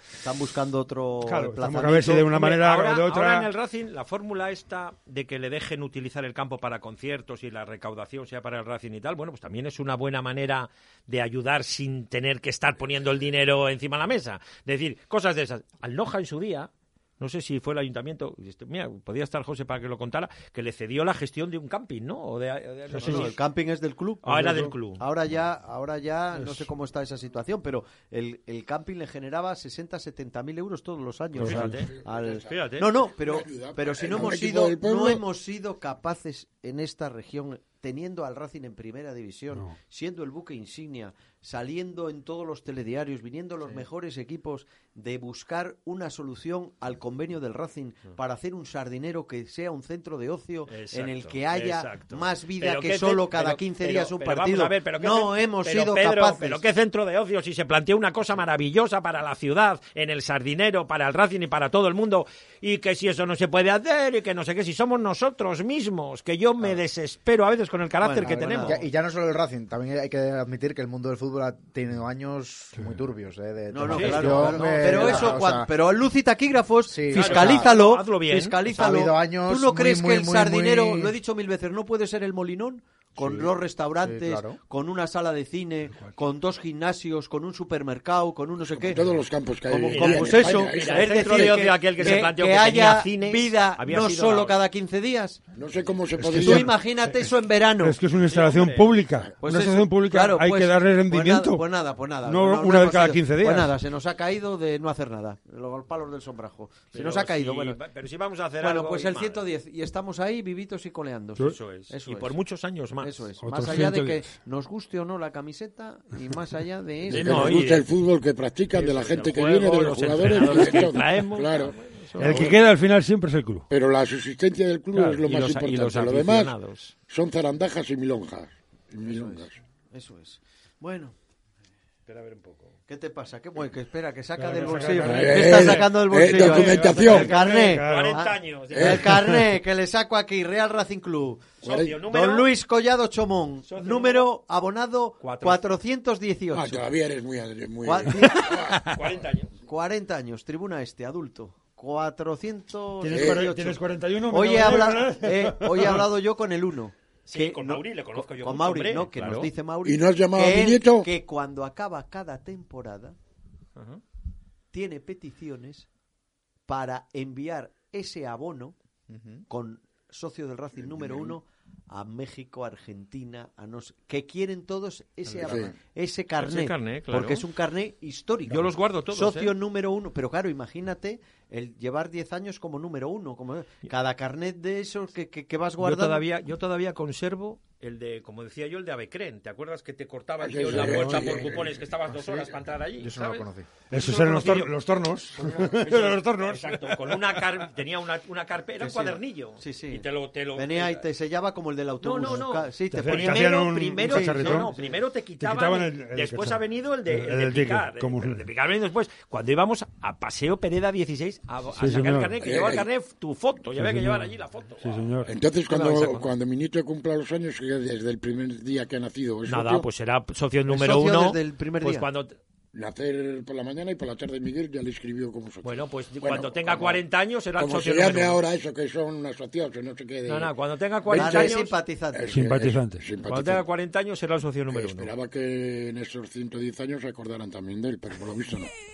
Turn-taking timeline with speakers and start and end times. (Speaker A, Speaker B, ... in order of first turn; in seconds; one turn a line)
Speaker A: 0.2-2.4
Speaker B: 1.2-3.5
Speaker C: 2.3-23.4
Speaker B: 22.9-23.3
Speaker A: 23.0-56.6
Speaker C: 24.2-25.0
Speaker B: 24.2-24.7
Speaker B: 26.4-26.7
Speaker B: 31.4-31.9
Speaker C: 31.4-31.9
Speaker D: 31.9-32.5
Speaker C: 32.5-32.9
Speaker D: 33.2-35.2
Speaker C: 50.7-68.8
Speaker A: 68.0-68.8
Speaker E: 68.6-75.7
Speaker A: 73.7-89.0
Speaker C: 73.8-75.4
Speaker E: 76.8-77.7
Speaker C: 77.1-78.6
Speaker E: 78.7-81.1
Speaker E: 83.2-83.5
Speaker E: 84.0-84.6
Speaker D: 88.7-91.5
Speaker A: 89.7-95.4
Speaker C: 89.9-94.6
Speaker D: 95.5-96.7
Speaker A: 96.2-98.0
Speaker B: 96.2-101.6
Speaker C: 98.2-98.9
Speaker A: 99.4-107.8
Speaker B: 102.2-103.7
Speaker C: 106.9-109.4
Speaker A: 108.6-112.4
Speaker C: 111.5-113.3
Speaker A: 113.0-117.6
Speaker B: 113.4-114.3
Speaker D: 117.1-122.6
Speaker C: 117.1-117.8
Speaker C: 118.7-122.5
Speaker B: 120.3-120.8
Speaker B: 122.2-123.7
Speaker D: 123.7-126.5
Speaker C: 124.9-126.9
Speaker D: 127.1-129.6
Speaker A: 129.0-131.1
Speaker C: 132.1-132.7
Speaker A: 132.9-141.4
Speaker B: 134.4-138.3
Speaker C: 135.0-135.9
Speaker D: 135.1-137.3
Speaker C: 137.1-139.1
Speaker D: 138.7-139.3
Speaker B: 139.1-139.4
Speaker D: 141.6-141.9
Speaker C: 141.6-142.5
Speaker A: 142.1-146.9
Speaker C: 143.7-144.3
Speaker C: 145.2-145.6
Speaker D: 146.5-148.8
Speaker A: 147.8-148.9
Speaker C: 148.7-149.5
Speaker A: 149.6-163.2
Speaker B: 153.0-156.1
Speaker D: 153.1-153.5
Speaker C: 157.3-159.5
Speaker D: 159.8-161.1
Speaker C: 163.8-164.0
Speaker A: 164.7-165.9
Speaker A: 166.7-168.7
Speaker E: 169.1-169.4
Speaker A: 169.5-186.2
Speaker D: 170.8-171.3
Speaker D: 175.4-175.7
Speaker E: 175.4-175.7
Speaker C: 176.4-177.4
Speaker C: 178.5-179.5
Speaker C: 185.8-194.7
Speaker D: 190.4-191.8
Speaker B: 190.7-191.4
Speaker E: 193.0-193.7
Speaker B: 193.9-197.4
Speaker C: 195.4-201.0
Speaker A: 198.8-204.8
Speaker C: 202.0-215.1
Speaker B: 202.9-204.7
Speaker B: 205.4-208.4
Speaker B: 211.7-212.4
Speaker D: 212.4-212.8
Speaker B: 213.8-215.3
Speaker D: 215.2-219.9
Speaker A: 215.7-216.2
Speaker C: 215.7-216.2
Speaker C: 219.5-222.3
Speaker A: 220.7-222.1
Speaker D: 222.7-227.0
Speaker C: 225.6-228.4
Speaker D: 227.6-230.5
Speaker C: 230.2-231.7
Speaker D: 231.0-231.6
Speaker A: 231.1-232.3
Speaker D: 232.1-233.6
Speaker B: 232.3-233.0
Speaker C: 233.2-235.1
Speaker D: 234.7-238.7